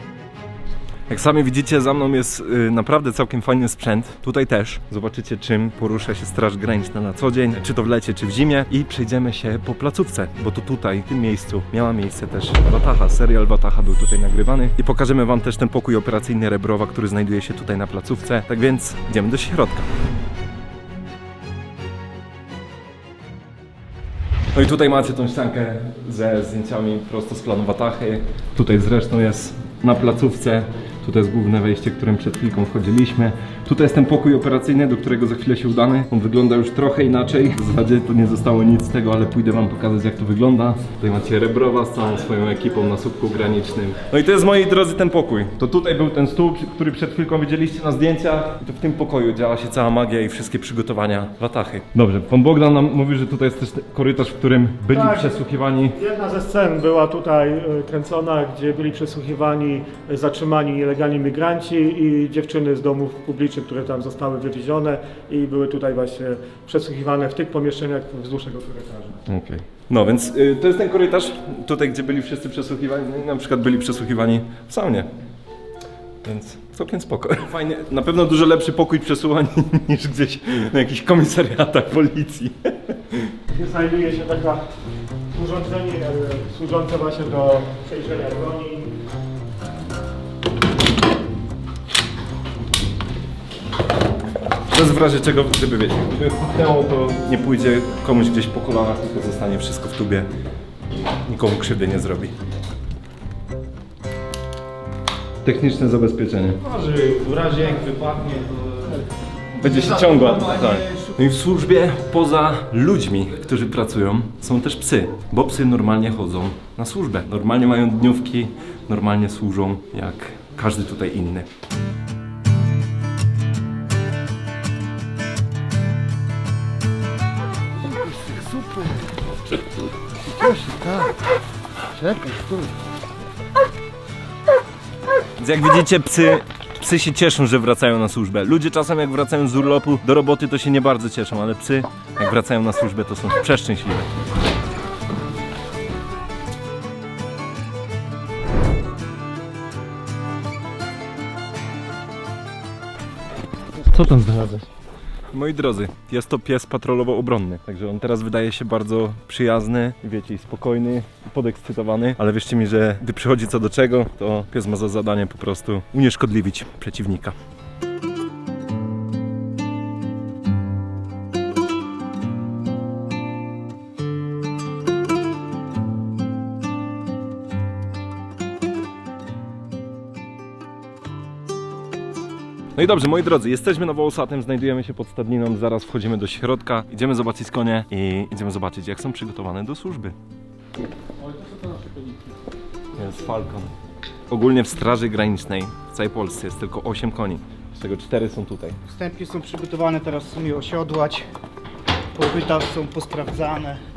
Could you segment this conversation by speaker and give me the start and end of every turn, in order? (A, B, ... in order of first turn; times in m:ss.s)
0:01.1-0:19.9 A
0:24.5-0:56.0 A
0:54.9-1:09.2 B
1:09.3-1:15.1 A
1:16.2-1:23.3 A
1:23.5-1:24.7 B
1:25.3-1:28.9 B
1:34.7-1:40.3 A
1:41.2-1:42.3 A
1:45.4-1:46.6 A
1:46.6-1:49.0 C
1:49.6-2:01.5 A
1:49.6-1:51.1 C
2:08.1-2:09.0 C
2:10.2-2:11.2 C
2:11.9-2:12.7 C
2:15.4-2:24.1 A
2:33.8-2:34.7 A
2:35.3-2:47.3 A
3:02.8-3:10.2 A
3:13.0-3:13.8 A
3:14.3-3:18.8 A
3:19.2-3:21.2 D
3:22.7-3:23.1 D